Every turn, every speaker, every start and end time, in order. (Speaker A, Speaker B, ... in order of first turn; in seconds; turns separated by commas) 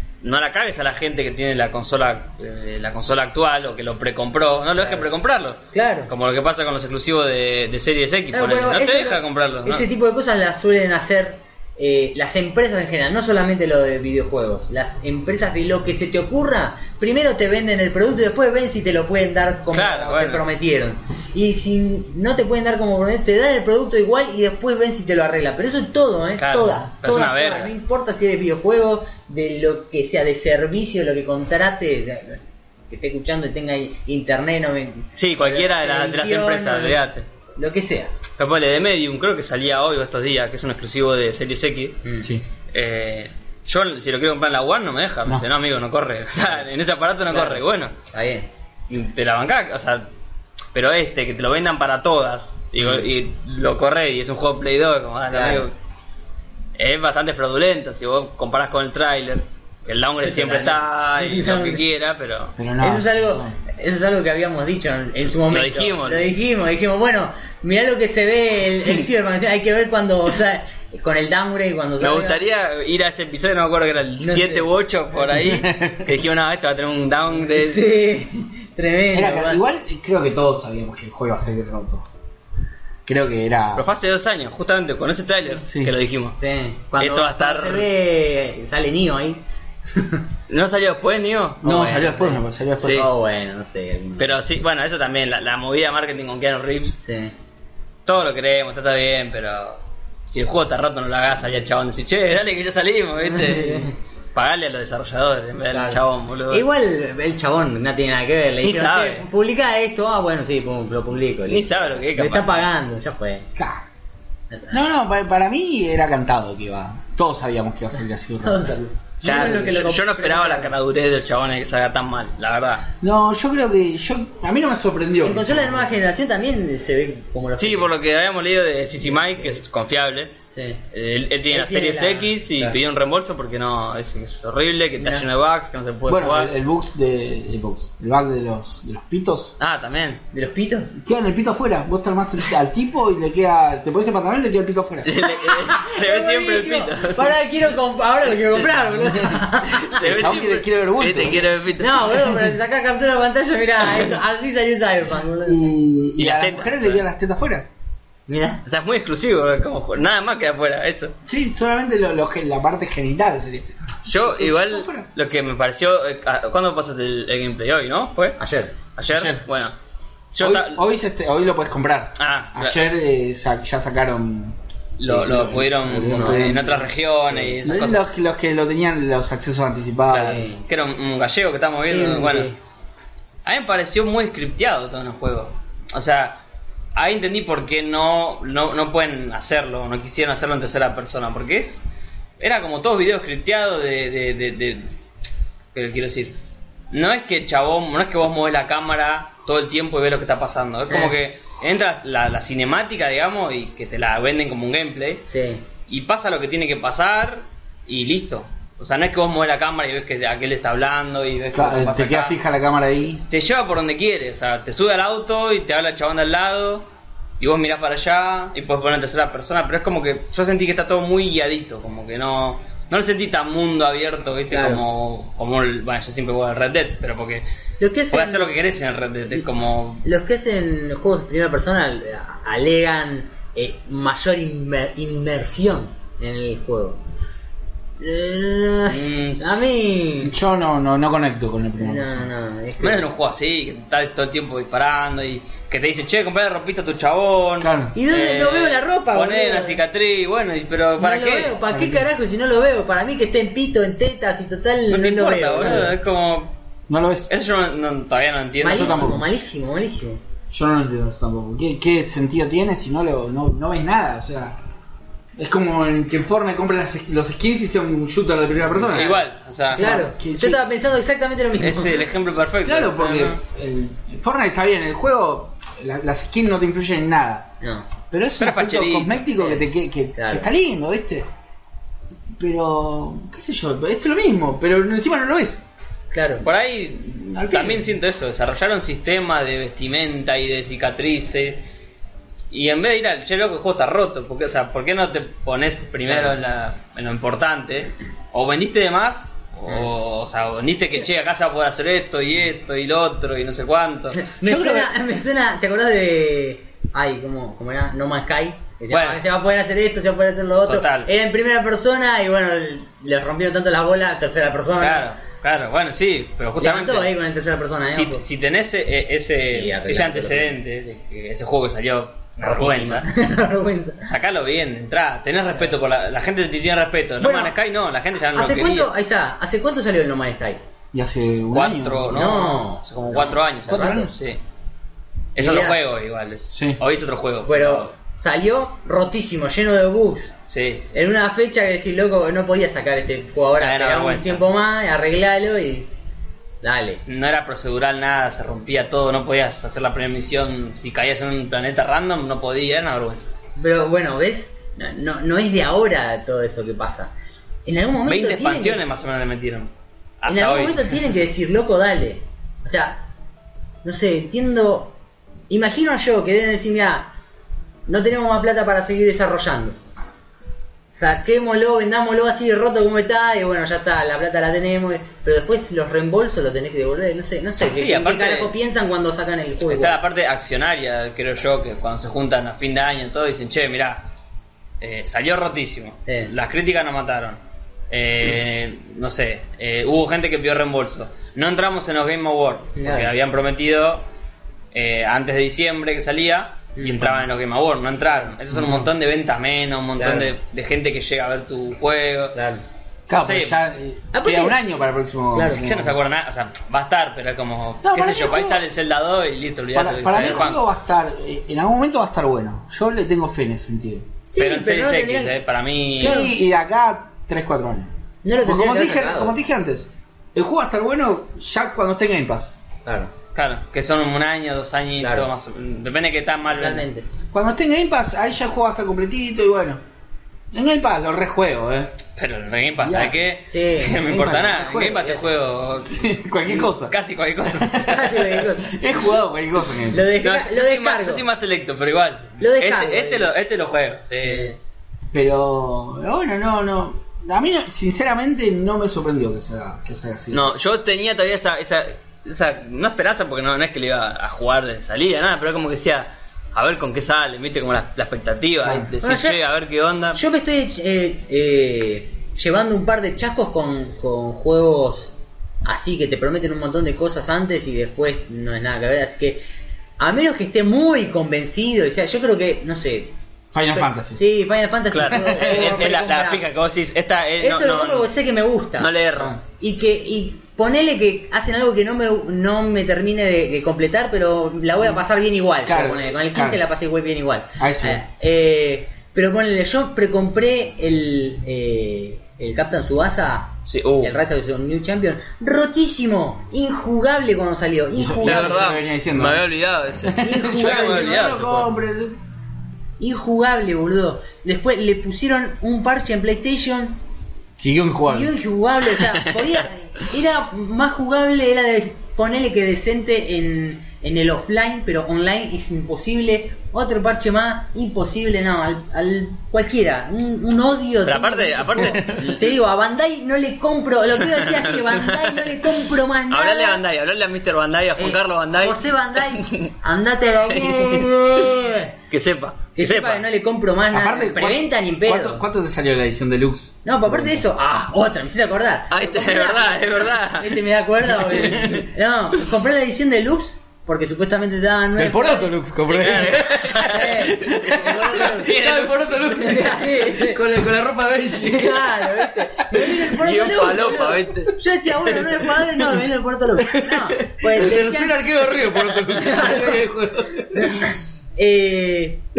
Speaker A: 0.2-9.9, Speaker B: 4.8-5.1, Speaker B: 5.7-6.1, Speaker B: 8.3-37.0, Speaker A: 19.7-20.4, Speaker A: 26.4-27.7, Speaker A: 35.2-37.3, Speaker B: 37.6-38.1, Speaker A: 38.4-42.0, Speaker A: 42.7-47.9, Speaker B: 47.3-48.5, Speaker A: 48.9-50.1, Speaker A: 50.7-55.7, Speaker B: 55.3-55.7, Speaker A: 56.8-62.6, Speaker B: 60.2-61.8, Speaker C: 62.6-63.5, Speaker B: 62.8-72.4, Speaker A: 65.5-66.3, Speaker A: 72.0-77.9, Speaker B: 74.2-74.7, Speaker C: 75.3-76.1, Speaker B: 77.5-79.6, Speaker C: 79.1-82.1, Speaker C: 83.1-83.9, Speaker A: 83.8-86.4, Speaker C: 85.6-86.0, Speaker B: 86.4-89.4, Speaker A: 87.0-87.9, Speaker B: 89.9-90.2, Speaker A: 90.5-93.1, Speaker C: 91.6-93.1, Speaker B: 92.0-94.4, Speaker A: 94.2-97.0, Speaker B: 97.0-97.3, Speaker A: 98.1-106.7, Speaker B: 103.3-103.9, Speaker B: 105.7-113.5, Speaker A: 108.6-109.3, Speaker A: 111.5-112.6, Speaker C: 113.6-113.8, Speaker B: 114.5-114.8, Speaker C: 114.7-118.8, Speaker B: 118.4-120.7, Speaker A: 119.2-122.9, Speaker C: 123.0-125.9, Speaker B: 125.2-127.9, Speaker A: 127.6-130.3, Speaker B: 129.1-129.6, Speaker B: 130.5-130.8, Speaker A: 130.9-136.5, Speaker B: 131.5-132.8, Speaker B: 135.0-135.2, Speaker C: 136.1-139.6, Speaker A: 139.6-140.2, Speaker B: 140.3-140.9, Speaker C: 141.0-145.2, Speaker A: 145.1-147.4, Speaker B: 145.2-150.1, Speaker A: 148.3-149.1, Speaker A: 149.6-152.3, Speaker C: 150.0-151.5, Speaker B: 151.8-155.7, Speaker C: 155.4-157.7, Speaker A: 156.2-157.0, Speaker B: 158.3-158.6, Speaker A: 158.7-161.1, Speaker C: 161.3-165.1, Speaker A: 164.1-168.4, Speaker B: 168.4-168.8, Speaker A: 169.0-169.8, Speaker C: 169.1-169.4, Speaker A: 170.3-170.8, Speaker C: 170.4-176.9, Speaker A: 172.2-172.8, Speaker A: 175.0-178.0, Speaker B: 176.1-176.9, Speaker C: 177.6-180.5, Speaker A: 180.1-182.5, Speaker B: 180.2-180.6, Speaker B: 181.9-182.6, Speaker A: 183.4-186.4, Speaker A: 186.9-191.8, Speaker A: 192.4-194.9, Speaker A: 195.7-196.4, Speaker A: 196.9-205.3, Speaker B: 205.3-205.6, Speaker A: 205.9-212.3, Speaker C: 211.5-213.2, Speaker A: 213.3-216.9, Speaker A: 217.4-227.4, Speaker B: 224.5-224.8, Speaker B: 227.8-228.6, Speaker A: 228.1-230.0, Speaker B: 230.0-237.0, Speaker B: 238.0-240.3, Speaker A: 238.9-239.6, Speaker C: 240.2-242.3, Speaker B: 241.8-243.1, Speaker A: 242.8-251.6, Speaker C: 247.6-247.9, Speaker B: 247.9-249.8, Speaker B: 251.0-255.9, Speaker C: 251.7-252.1, Speaker A: 254.9-256.5, Speaker C: 256.9-257.3, Speaker A: 257.3-259.1, Speaker B: 258.6-260.2, Speaker C: 258.7-259.2, Speaker C: 260.5-264.6, Speaker C: 265.4-270.6, Speaker A: 268.9-269.9, Speaker B: 269.8-272.0, Speaker A: 271.6-273.4, Speaker C: 272.6-277.5, Speaker B: 277.6-277.9, Speaker C: 278.1-281.3, Speaker A: 278.4-279.3, Speaker B: 279.4-280.5, Speaker C: 282.4-285.6, Speaker B: 286.1-286.5, Speaker A: 286.4-291.6, Speaker C: 287.3-287.9, Speaker A: 292.5-304.2, Speaker B: 296.1-296.3, Speaker B: 304.1-315.1, Speaker C: 304.4-304.9, Speaker A: 308.9-309.2, Speaker A: 310.7-311.1, Speaker A: 314.8-317.2, Speaker B: 316.6-318.2, Speaker A: 317.8-323.1, Speaker B: 319.5-320.6, Speaker B: 322.4-324.1, Speaker A: 324.0-328.9, Speaker B: 327.2-327.6, Speaker B: 328.4-330.6, Speaker C: 330.9-332.2, Speaker A: 331.5-334.4, Speaker B: 332.1-334.1, Speaker C: 333.7-334.1, Speaker A: 335.4-337.9, Speaker B: 335.4-335.8, Speaker C: 336.5-336.8, Speaker B: 337.5-340.3, Speaker A: 340.5-340.9, Speaker B: 340.9-345.9, Speaker A: 343.6-344.4, Speaker B: 346.6-347.0, Speaker A: 347.1-353.3, Speaker B: 353.6-357.1, Speaker B: 357.7-358.8, Speaker A: 358.1-359.7, Speaker A: 360.2-361.0, Speaker B: 360.3-363.0, Speaker B: 363.8-364.9, Speaker B: 365.5-367.1, Speaker B: 367.9-369.8, Speaker B: 370.9-380.0, Speaker A: 377.6-378.6, Speaker A: 379.7-384.1, Speaker A: 384.8-387.4, Speaker B: 386.1-386.3, Speaker A: 387.9-394.1, Speaker B: 392.8-393.1, Speaker A: 394.7-402.4, Speaker B: 396.8-397.2, Speaker C: 398.6-398.9, Speaker B: 400.0-400.3, Speaker B: 402.4-402.6, Speaker A: 403.1-403.6, Speaker C: 403.1-406.0, Speaker B: 404.1-404.6, Speaker B: 405.3-405.6, Speaker A: 405.4-410.6, Speaker C: 407.8-408.6, Speaker C: 409.7-414.1, Speaker B: 414.3-415.4, Speaker A: 414.4-416.2, Speaker C: 415.9-417.9, Speaker B: 416.0-416.3, Speaker B: 418.2-419.4, Speaker C: 418.4-422.5, Speaker B: 422.9-423.1, Speaker A: 423.4-426.9, Speaker B: 425.0-425.3, Speaker B: 426.5-427.1, Speaker C: 427.3-429.8, Speaker C: 430.5-432.0, Speaker A: 432.2-438.4, Speaker C: 432.8-433.2, Speaker B: 433.5-435.2, Speaker C: 434.5-435.0, Speaker C: 435.8-440.1, Speaker B: 437.7-438.8, Speaker B: 439.9-441.2, Speaker A: 440.2-444.5, Speaker B: 442.4-443.3, Speaker B: 444.1-444.6, Speaker C: 445.1-450.5, Speaker A: 450.3-460.2, Speaker C: 458.6-458.9, Speaker B: 459.0-459.4, Speaker B: 460.1-469.4, Speaker B: 470.0-473.1, Speaker C: 473.5-474.2, Speaker B: 473.7-476.4, Speaker A: 474.9-478.1, Speaker B: 477.4-498.6, Speaker A: 478.8-479.4, Speaker C: 485.6-486.6, Speaker C: 487.6-488.0, Speaker A: 493.7-494.2, Speaker C: 498.0-499.5, Speaker A: 498.2-501.7, Speaker C: 500.2-502.2, Speaker B: 500.2-501.4, Speaker B: 503.0-507.0, Speaker C: 507.6-508.3, Speaker B: 507.9-526.8, Speaker A: 509.0-509.6, Speaker A: 521.1-522.5, Speaker A: 524.2-525.8, Speaker A: 526.3-529.7, Speaker B: 528.0-531.9, Speaker A: 530.5-531.1, Speaker A: 532.1-533.2, Speaker B: 532.8-535.4, Speaker C: 533.9-537.4, Speaker B: 536.9-548.6, Speaker A: 538.9-540.6, Speaker C: 545.0-553.0, Speaker A: 545.9-549.6, Speaker B: 549.3-550.4, Speaker B: 551.4-559.8, Speaker A: 553.0-554.5, Speaker C: 556.6-560.9, Speaker B: 560.5-562.2